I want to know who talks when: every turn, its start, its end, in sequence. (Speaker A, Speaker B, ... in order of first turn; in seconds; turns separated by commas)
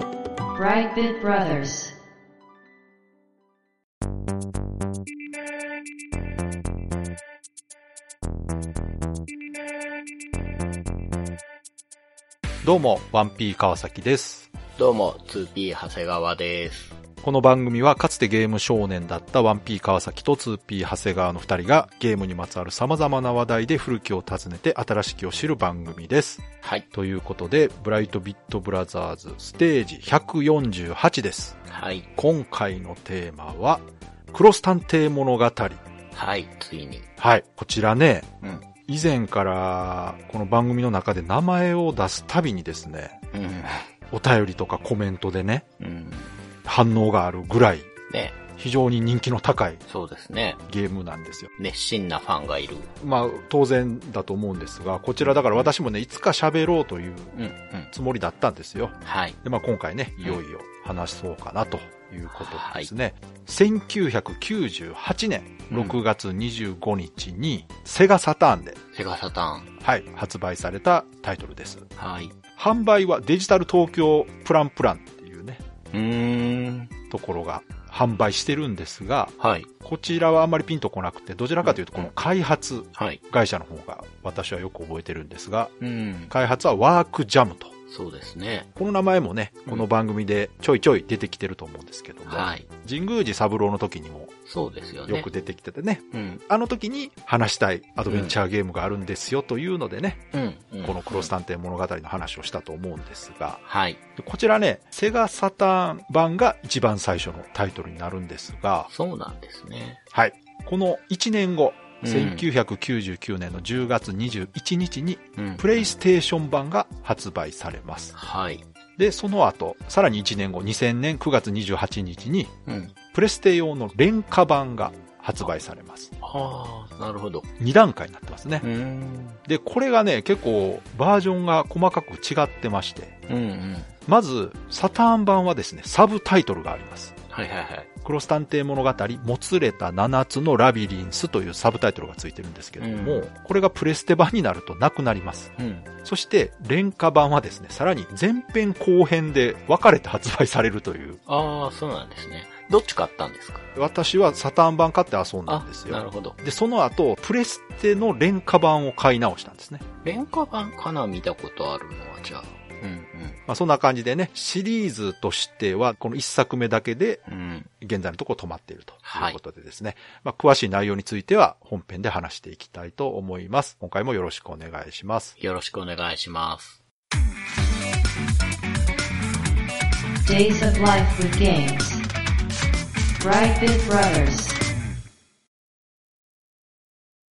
Speaker A: 0.6-2.0, Speaker B: 12.6-14.5, Speaker C: 14.8-17.0, Speaker B: 17.2-31.6, Speaker C: 31.7-32.2, Speaker B: 32.2-35.8, Speaker C: 36.1-37.1, Speaker B: 37.2-38.3, Speaker C: 38.4-38.7, Speaker B: 38.9-43.2, Speaker C: 43.3-43.9, Speaker B: 44.1-45.6, Speaker C: 45.8-46.4, Speaker B: 46.6-47.9, Speaker C: 48.1-48.4, Speaker B: 48.6-49.8, Speaker C: 49.9-50.6, Speaker B: 50.7-51.5, Speaker C: 51.6-52.9, Speaker B: 53.0-57.4, Speaker C: 57.3-57.9, Speaker B: 57.9-68.8, Speaker C: 59.0-59.4, Speaker C: 62.3-62.9, Speaker C: 65.7-66.0, Speaker C: 68.9-69.7, Speaker B: 69.8-71.9, Speaker C: 72.0-72.3, Speaker B: 72.6-75.6, Speaker C: 75.9-76.9, Speaker B: 77.1-85.7, Speaker C: 79.4-79.7, Speaker C: 81.6-82.1, Speaker C: 83.0-83.2, Speaker C: 85.8-86.3, Speaker B: 86.3-87.7, Speaker C: 87.9-88.7, Speaker B: 88.8-94.3, Speaker C: 92.3-92.7, Speaker C: 94.5-95.3, Speaker B: 95.1-100.3, Speaker C: 96.1-96.4, Speaker C: 98.1-98.4, Speaker C: 100.3-101.3, Speaker B: 100.8-103.6, Speaker C: 103.7-104.0, Speaker B: 104.2-108.9, Speaker C: 108.9-110.0, Speaker B: 110.1-118.2, Speaker C: 112.0-112.5, Speaker C: 115.4-115.9, Speaker C: 118.1-118.7, Speaker B: 119.0-122.5, Speaker C: 122.7-122.9, Speaker B: 123.1-126.1, Speaker C: 126.2-127.5, Speaker B: 127.6-128.7, Speaker C: 128.6-129.4, Speaker B: 129.4-133.2, Speaker C: 133.3-133.9, Speaker B: 134.1-137.2, Speaker C: 137.3-137.9, Speaker B: 138.0-151.2, Speaker C: 142.8-143.3, Speaker C: 145.6-145.9, Speaker C: 151.3-153.7, Speaker B: 153.8-159.9, Speaker C: 155.5-156.4, Speaker C: 160.0-163.4, Speaker B: 163.5-167.2, Speaker C: 167.3-167.7, Speaker B: 167.8-175.4, Speaker C: 169.1-169.4, Speaker C: 175.4-176.8, Speaker A: 180.2-182.0, Speaker A: 183.2-184.6